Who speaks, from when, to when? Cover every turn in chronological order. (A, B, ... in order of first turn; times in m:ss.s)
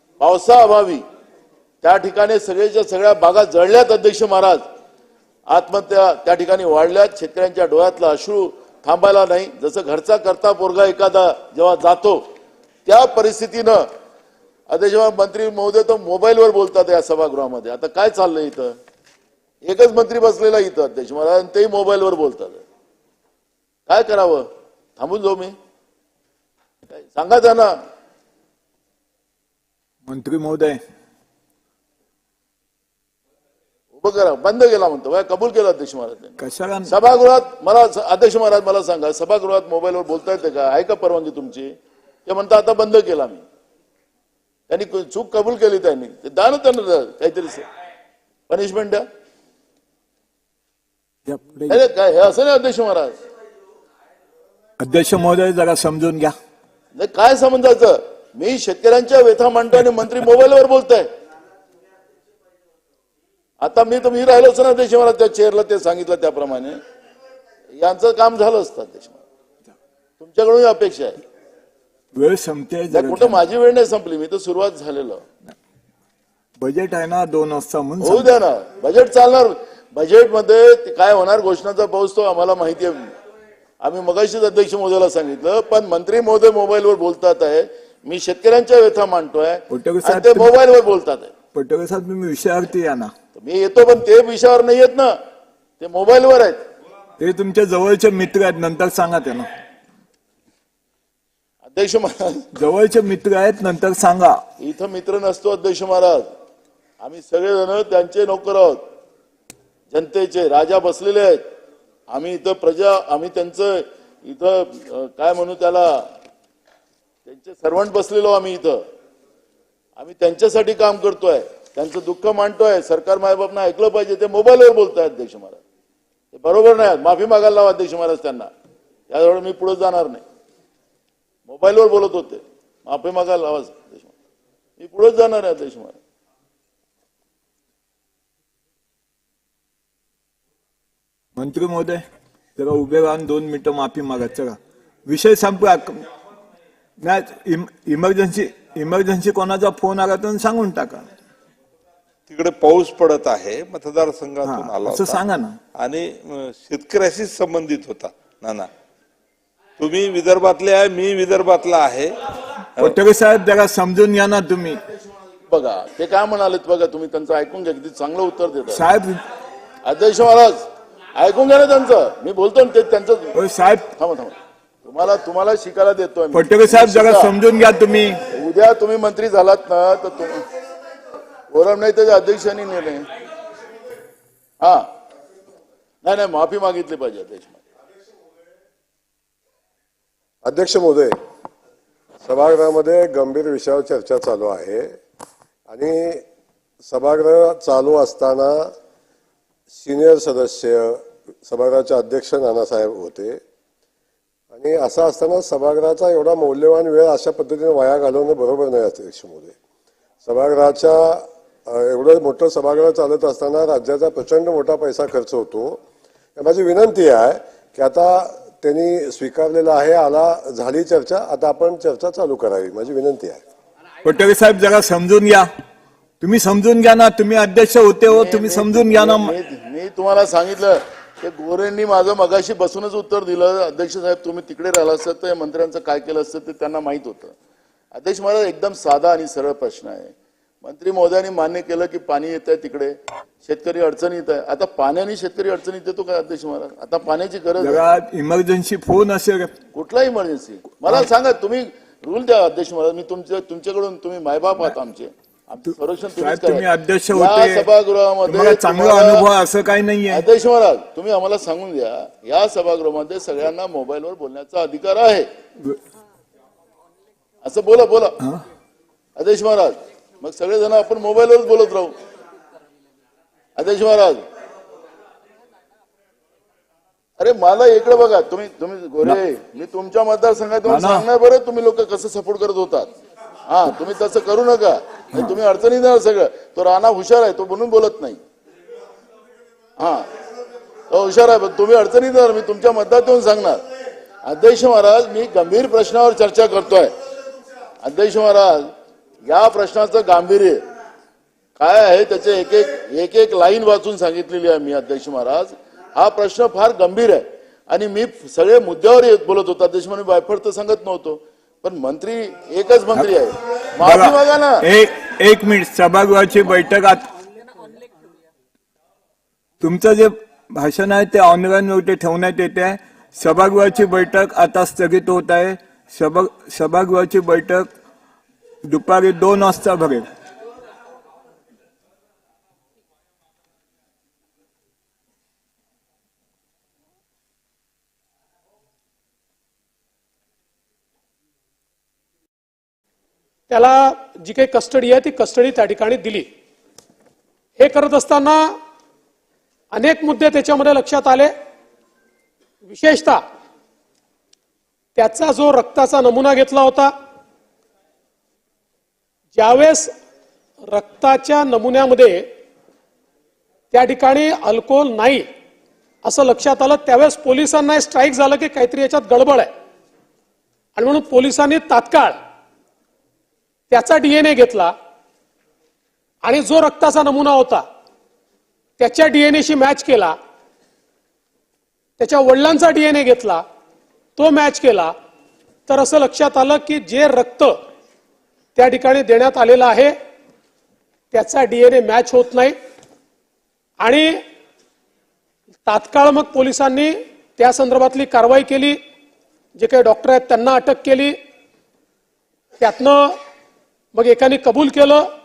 0:00.2-0:01.0 A
0:01.8-0:04.6 A
0:05.5-0:12.2 A
0:12.8-0:13.9 A
0:14.7-0:18.8 A
0:19.6-0:22.6 A
0:23.9-0:25.5 A
0:26.9-0:27.8 A
0:30.0-0:30.8 B
0:33.9-0:41.7 A
0:36.4-0:36.9 B
0:42.2-0:43.4 A
0:44.7-0:47.6 A
0:48.5-0:49.0 A
0:51.2-0:51.8 B
0:51.7-0:53.1 A
0:54.8-0:56.3 B
0:56.9-1:01.1 A
1:03.6-1:06.8 A
1:07.8-1:09.2 A
1:10.2-1:11.2 A
1:12.1-1:13.4 B
1:12.9-1:15.2 A
1:16.6-1:18.3 B
1:18.0-1:23.1 A
1:23.8-1:31.3 A
1:29.7-1:30.5 B
1:31.5-1:33.1 B
1:33.4-1:35.2 A
1:35.8-1:36.6 A
1:37.2-1:39.5 B
1:41.6-1:42.5 A
1:42.5-1:44.4 B
1:44.6-1:46.3 A
1:47.0-1:48.8 A
1:49.9-1:51.4 A
1:52.1-1:56.1 A
1:57.2-1:58.8 A
2:00.0-2:05.6 A
2:06.3-2:08.5 A
2:09.1-2:10.2 A
2:11.5-2:14.1 A
2:14.8-2:16.0 A
2:21.4-2:22.0 B
2:22.6-2:26.0 B
2:27.0-2:31.1 B
2:32.3-2:35.2 C
2:34.4-2:35.6 B
2:35.7-2:38.7 C
2:39.8-2:42.2 C
2:42.8-2:44.8 B
2:45.5-2:48.8 A
2:48.7-2:49.2 B
2:49.8-2:53.3 A
2:53.3-2:53.9 B
2:54.0-2:57.3 A
2:56.3-2:58.2 B
2:58.3-3:00.4 A
3:01.5-3:03.1 A
3:04.6-3:04.9 A
3:06.0-3:07.6 A
3:10.4-3:11.1 D
3:12.2-3:14.9 D
3:15.7-3:16.2 D
3:16.9-3:18.7 D
3:19.7-3:23.4 D
3:24.5-3:29.5 D
3:30.2-3:35.8 D
3:36.4-3:43.4 D
3:44.0-3:45.5 B
3:46.2-3:49.3 B
3:48.0-3:57.3 A
3:57.9-4:07.8 A
4:07.6-4:09.5 B
4:09.7-4:19.2 A
4:16.2-4:17.7 B
4:18.2-4:20.2 B
4:20.1-4:25.3 A
4:27.4-4:28.2 A
4:29.2-4:31.9 A
4:33.6-4:34.2 A
4:37.2-4:42.9 A
4:40.6-4:41.0 B
4:43.5-4:48.2 A
4:49.8-4:50.1 A
4:50.9-4:53.6 A
4:54.2-4:56.9 A
4:57.8-4:58.7 A
4:59.2-5:00.6 A
5:01.6-5:14.6 A
5:13.8-5:17.1 B
5:19.6-5:27.7 B
5:28.6-5:30.1 B
5:43.5-5:46.3 E
5:47.6-5:48.4 E
5:49.7-5:51.3 E
5:52.6-5:53.2 E
5:55.0-5:56.9 E
5:59.3-5:59.9 E
6:00.7-6:02.3 E
6:03.7-6:05.2 E
6:06.0-6:09.5 E
6:10.8-6:12.2 E
6:13.7-6:14.7 E
6:16.2-6:17.6 E
6:18.8-6:20.1 E
6:22.0-6:23.4 E
6:24.2-6:24.9 E
6:25.7-6:27.6 E
6:28.6-6:29.9 E
6:31.1-6:32.5 E
6:33.8-6:34.1 E
6:35.6-6:38.8 E
6:39.6-6:41.1 E
6:42.6-6:43.1 E
6:43.9-6:45.0 E